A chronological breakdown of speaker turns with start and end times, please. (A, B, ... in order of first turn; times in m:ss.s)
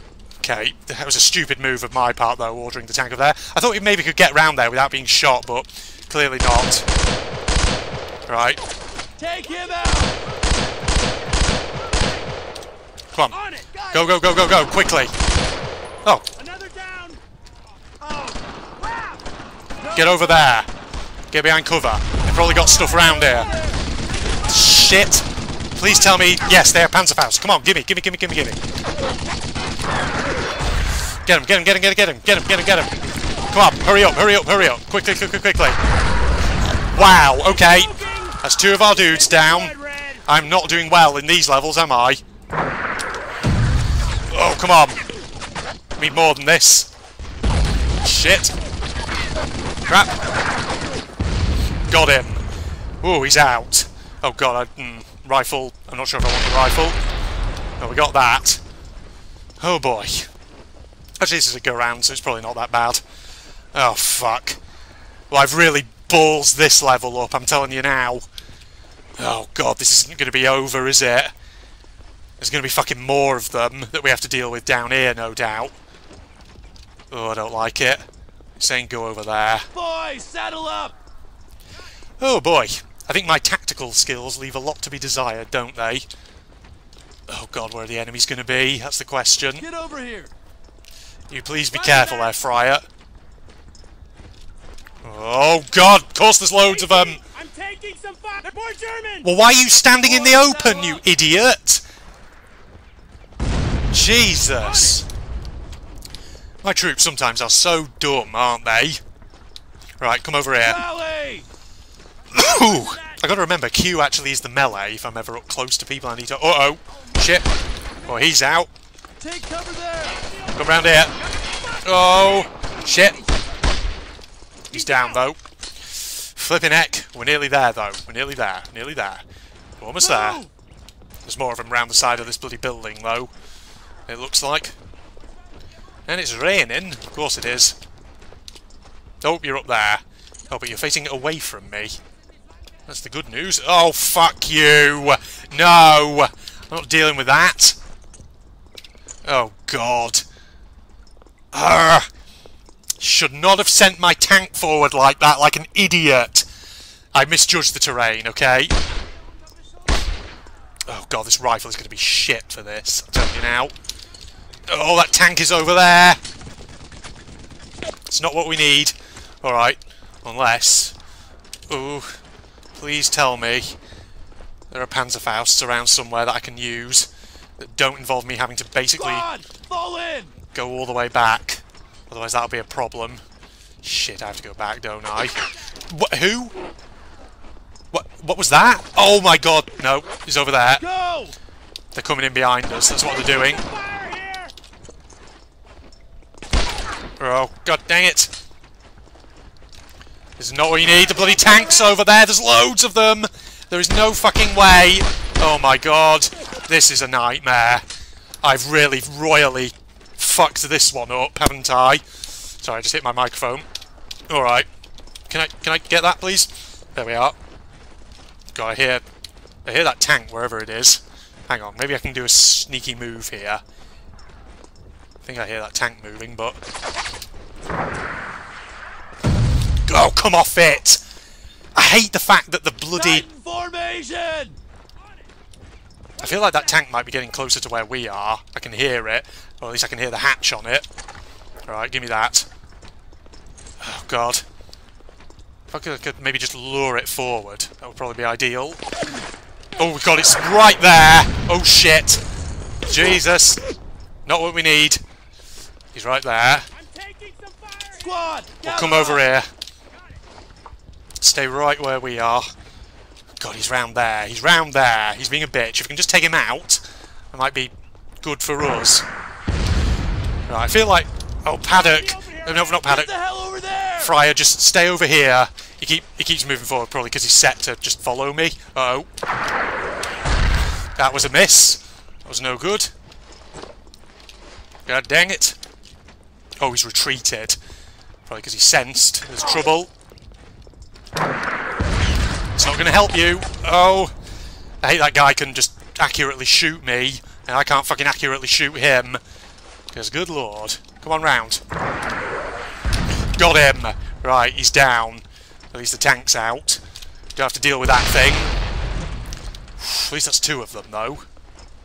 0:00.4-0:06.8 A
0:08.3-0:08.6 A
0:09.2-0:10.2 B
0:11.9-0:12.2 C
0:13.3-0:13.9 C
0:13.9-0:15.1 A
0:16.4-0:17.2 C
0:18.1-0:19.2 C
0:19.8-0:20.5 B
0:19.9-0:20.7 A
0:21.3-0:23.5 A
0:22.5-0:23.8 B
0:24.1-0:24.5 C
0:24.4-0:28.6 A
0:31.2-0:32.9 A
0:33.5-0:35.8 A
0:36.9-0:42.2 A
0:37.5-0:40.2 C
0:44.3-0:45.0 A
0:46.0-0:46.9 A
0:48.0-0:48.5 A
0:49.9-0:50.2 A
0:51.9-0:52.4 A
0:53.0-0:57.0 A
0:57.8-0:58.6 A
0:59.6-1:00.3 A
1:01.2-1:03.0 A
1:03.7-1:04.6 A
1:05.3-1:08.2 A
1:09.2-1:11.3 A
1:12.4-1:15.7 A
1:17.1-1:18.0 A
1:18.6-1:19.7 A
1:19.7-1:21.0 B
1:22.2-1:26.1 A
1:27.3-1:29.6 A
1:29.6-1:30.3 B
1:31.3-1:32.8 A
1:31.7-1:32.3 C
1:35.0-1:37.2 A
1:36.6-1:39.3 C
1:39.2-1:41.8 A
1:40.0-1:41.0 B
1:43.9-1:45.0 A
1:44.6-1:45.0 C
1:46.6-1:49.0 A
1:50.0-1:50.8 A
1:50.6-1:51.4 B
1:52.3-1:57.5 A
1:52.3-1:53.2 C
1:58.1-1:58.7 A
1:59.2-2:00.2 B
2:00.3-2:01.1 C
2:00.6-2:01.1 A
2:01.8-2:03.2 A
2:04.7-2:09.2 A
2:04.7-2:05.2 C
2:09.8-2:10.4 A
2:10.0-2:10.5 B
2:11.2-2:13.3 A
2:14.1-2:14.7 A
2:16.1-2:17.8 A
2:19.2-2:22.0 A
2:22.9-2:27.8 A
2:29.2-2:30.2 A
2:31.5-2:32.1 A
2:33.0-2:36.4 A
2:37.1-2:38.7 A
2:40.9-2:43.7 A
2:44.7-2:46.2 A
2:48.1-2:50.9 A
2:51.7-2:52.2 A
2:52.8-2:53.8 A
2:54.7-2:59.2 A
2:59.0-3:00.4 B
3:00.5-3:03.2 A
3:03.8-3:06.5 A
3:07.9-3:10.8 A
3:10.8-3:11.3 B
3:11.9-3:13.6 A
3:13.4-3:14.5 C
3:17.2-3:18.3 A
3:20.4-3:27.8 A
3:28.4-3:32.0 A
3:32.6-3:33.7 A
3:34.3-3:34.7 A
3:35.3-3:37.4 A
3:38.5-3:39.0 A
3:39.6-3:43.6 A
3:45.2-3:46.6 A
3:49.9-3:51.0 A
3:51.7-3:53.2 A
3:52.9-3:54.6 B
3:56.2-4:00.8 A
3:56.2-3:56.7 C
4:01.7-4:02.5 A
4:03.8-4:04.4 A
4:05.7-4:08.8 A
4:09.8-4:12.2 A
4:12.9-4:13.6 A
4:14.2-4:15.0 A
4:15.9-4:16.7 A
4:16.7-4:18.2 C
4:18.0-4:19.2 B
4:18.6-4:19.5 A
4:21.2-4:22.5 A
4:23.4-4:29.1 A
4:30.5-4:33.1 A
4:31.7-4:32.8 C
4:32.7-4:34.1 B
4:34.0-4:39.1 A
4:41.0-4:42.9 A
4:44.8-4:45.6 A
4:46.6-4:47.6 A
4:48.2-4:49.9 A
4:52.6-4:54.1 A
4:54.8-4:59.2 A
4:59.9-5:01.6 A
5:03.4-5:06.8 A
5:07.4-5:08.5 A
5:09.8-5:11.2 A